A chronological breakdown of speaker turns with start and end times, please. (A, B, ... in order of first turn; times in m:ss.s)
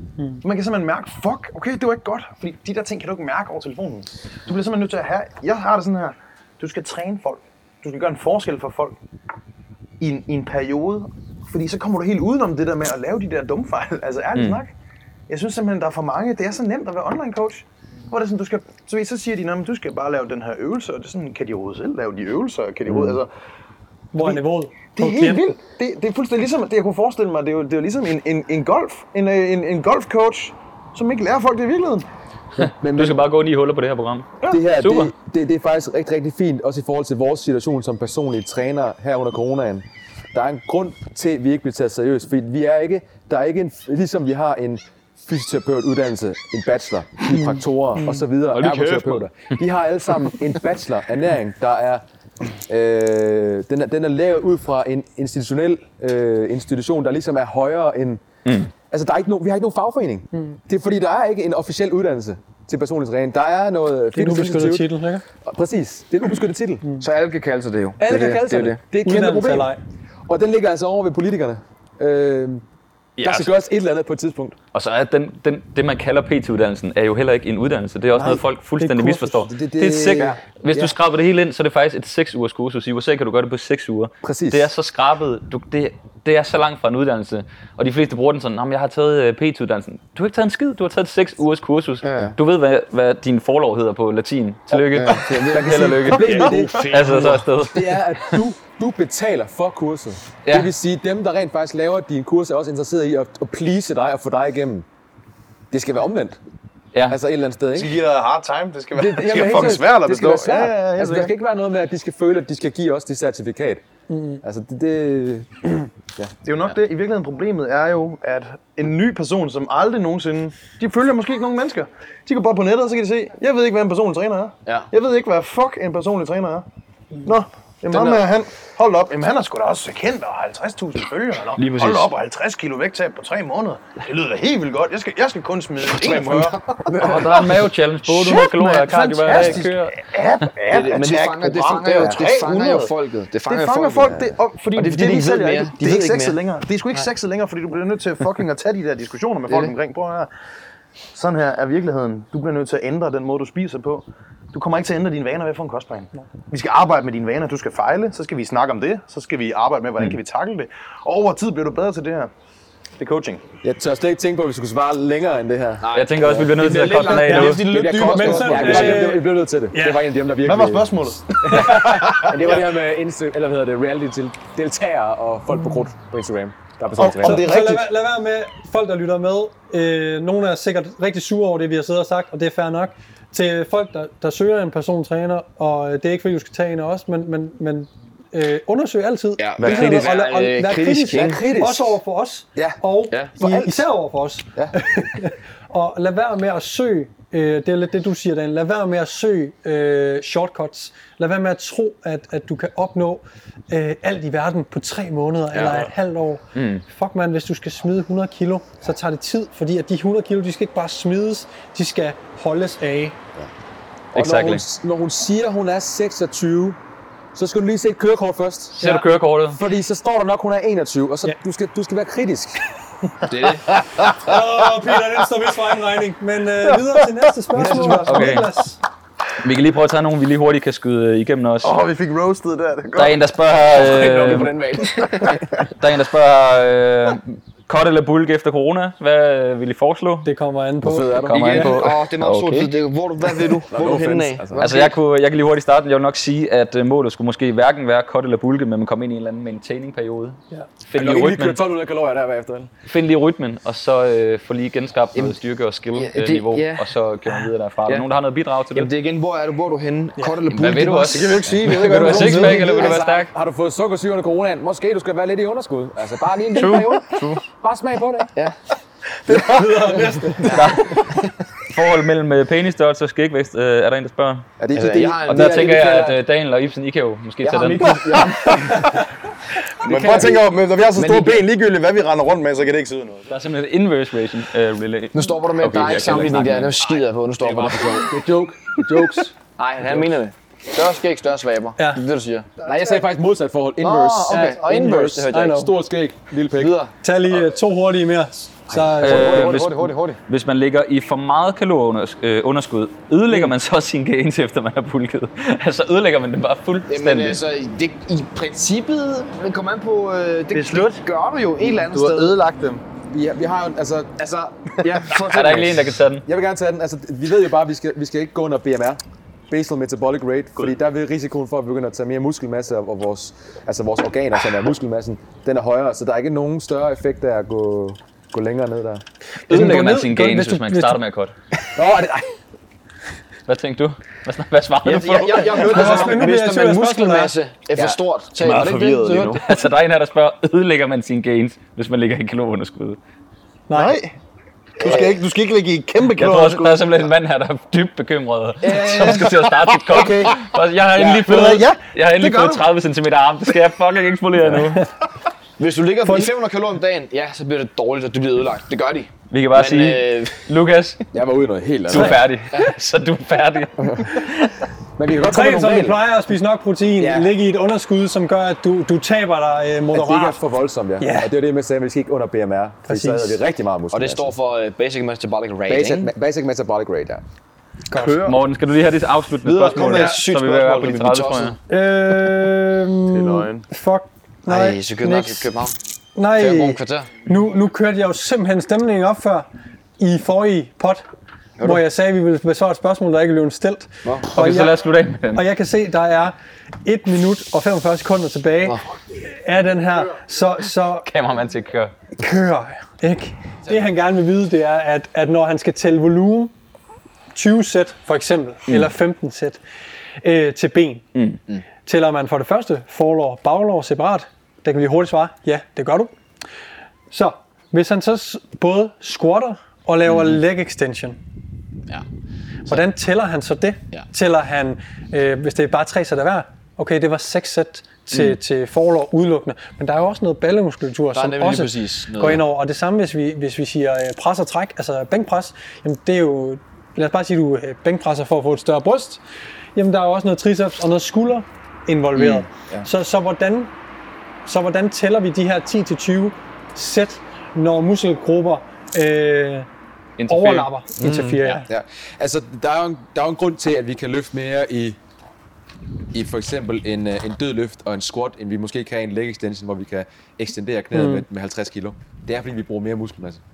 0:00.2-0:00.4 A
0:00.4-0:09.0 B
0:10.0-0:14.7 B
0:14.3-0:14.6 C
0:15.3-0:23.3 B
0:24.1-0:25.5 A
0:25.0-0:32.0 B
0:32.6-0:33.2 D
0:32.6-0:35.1 C
0:34.5-0:52.0 D
0:48.5-0:49.3 C
0:52.7-0:58.2 D
0:58.4-0:58.7 C
0:58.9-1:04.9 D
1:00.3-1:00.6 A
1:04.1-1:05.2 A
1:05.4-1:06.8 D
1:07.0-1:08.8 E
1:08.0-1:09.8 A
1:08.1-1:09.7 D
1:10.2-1:12.6 D
1:13.2-1:13.5 C
1:13.2-1:14.6 D
1:14.7-1:38.4 C
1:18.1-1:20.9 D
1:18.8-1:19.1 A
1:24.2-1:24.7 D
1:32.0-1:32.4 E
1:34.7-1:37.4 E
1:35.4-1:44.8 D
1:36.2-1:36.7 A
1:40.4-1:40.7 C
1:45.7-1:46.4 D
1:46.9-1:47.2 C
1:47.0-1:48.0 D
1:47.7-1:51.3 B
1:48.9-1:53.8 D
1:54.1-1:54.4 A
1:54.4-1:56.3 D
1:56.4-2:06.6 B
2:07.2-2:30.3 B
2:07.9-2:08.2 E
2:11.6-2:12.1 E
2:15.8-2:17.3 E
2:17.0-2:19.9 C
2:19.2-2:19.9 A
2:20.7-2:26.4 E
2:31.1-2:42.3 B
2:43.0-2:43.4 B
2:43.6-2:57.5 D
2:45.8-2:49.1 E
2:45.9-2:47.7 C
2:48.0-2:50.1 A
2:48.3-2:48.8 B
2:50.4-2:52.6 B
2:55.6-2:55.9 A
2:57.0-2:57.9 B
2:57.2-3:33.2 A
3:09.4-3:11.4 E
3:09.6-3:10.1 D
3:11.1-3:12.0 D
3:13.4-3:13.8 D
3:25.5-3:25.8 E
3:26.5-3:26.8 C
3:34.1-3:36.8 D
3:34.1-3:34.6 C
3:37.3-3:38.9 D
3:38.8-3:39.6 C
3:38.8-3:39.1 A
3:39.5-3:42.6 D
3:43.3-3:43.8 E
3:44.2-3:48.8 A
3:47.5-3:48.4 D
3:48.0-3:48.5 C
3:49.4-3:51.7 C
3:51.6-3:53.2 B
3:52.9-3:54.6 C
3:53.7-3:55.4 D
3:54.8-3:55.4 E
3:55.8-4:00.3 C
4:00.2-4:01.7 A
4:00.8-4:01.7 D
4:01.3-4:02.7 C
4:01.3-4:04.9 E
4:03.7-4:04.7 D
4:04.6-4:11.6 C
4:11.0-4:12.7 D
4:12.9-4:18.9 C
4:15.9-4:18.1 E
4:18.7-4:21.5 E
4:20.5-4:23.3 C
4:21.1-4:23.0 B
4:21.7-4:28.3 D
4:22.6-4:22.9 E
4:26.5-4:27.4 C
4:29.3-4:31.0 A
4:30.4-4:34.5 C
4:30.5-4:31.3 E
4:34.6-4:36.2 D
4:34.7-4:35.9 E
4:35.3-4:38.3 C
4:37.4-4:39.0 E
4:39.8-4:43.3 B
4:39.8-4:40.4 E
4:39.9-4:40.4 D
4:40.9-4:41.4 E
4:43.3-4:46.9 C
4:45.1-4:48.1 E
4:47.4-4:50.2 D
4:49.6-4:53.0 E
4:52.6-4:56.7 D
4:53.8-4:55.5 E
4:54.3-4:54.6 A
4:55.3-4:55.7 A
4:56.5-4:56.9 E
4:57.0-4:59.4 A
4:58.7-4:59.2 D
4:58.9-5:00.2 E
4:59.0-5:07.4 C
5:06.9-5:12.3 E
5:10.5-5:11.0 B
5:11.6-5:12.8 B
5:13.1-5:14.1 D
5:14.2-5:15.9 E
5:15.2-5:16.2 C
5:16.2-5:29.0 D
5:29.5-5:31.0 A
5:29.5-5:31.3 C
5:31.7-5:32.2 D
5:33.5-5:36.1 C
5:34.8-5:39.4 E
5:35.6-5:37.3 A
5:38.4-5:39.4 B
5:39.4-5:43.0 C
5:43.7-5:44.0 A
5:43.7-5:44.1 B
5:44.8-5:46.9 B
5:44.8-5:45.2 E
5:46.1-5:54.9 C
5:48.6-5:49.4 E
5:49.0-5:50.3 B
5:51.0-5:52.6 B
5:55.6-6:00.5 E
5:56.0-5:56.3 A
5:59.3-6:01.0 C
6:01.1-6:02.2 D
6:01.9-6:04.5 C
6:05.0-6:06.0 D
6:05.2-6:10.4 A
6:07.0-6:07.3 E
6:09.9-6:14.3 D
6:11.0-6:11.3 A
6:12.9-6:13.4 A
6:13.9-6:16.1 E
6:15.7-6:17.2 D
6:17.9-6:18.3 A
6:18.0-6:21.6 C
6:19.5-6:21.6 E
6:19.5-6:20.2 A
6:21.7-6:25.5 A
6:23.1-6:23.6 B
6:24.4-6:25.8 E
6:26.2-6:29.5 A
6:26.4-6:27.1 E
6:30.0-6:31.0 A
6:31.6-6:31.8 E
6:31.6-6:34.8 A
6:34.0-6:34.3 E
6:34.3-6:35.4 C
6:35.3-6:41.1 A
6:41.0-6:41.9 C
6:42.2-6:46.5 A
6:47.3-6:49.6 A
6:50.2-6:51.0 A
6:51.8-6:56.1 A
6:57.1-7:01.2 A
7:00.1-7:00.4 E
7:02.7-7:19.2 A
7:11.1-7:12.4 E
7:19.7-7:23.7 A
7:22.2-7:22.4 E
7:24.4-7:29.7 A
7:30.2-7:30.7 C
7:30.3-7:31.7 A
7:31.0-7:35.0 D
7:36.1-7:43.4 D
7:40.9-7:41.2 A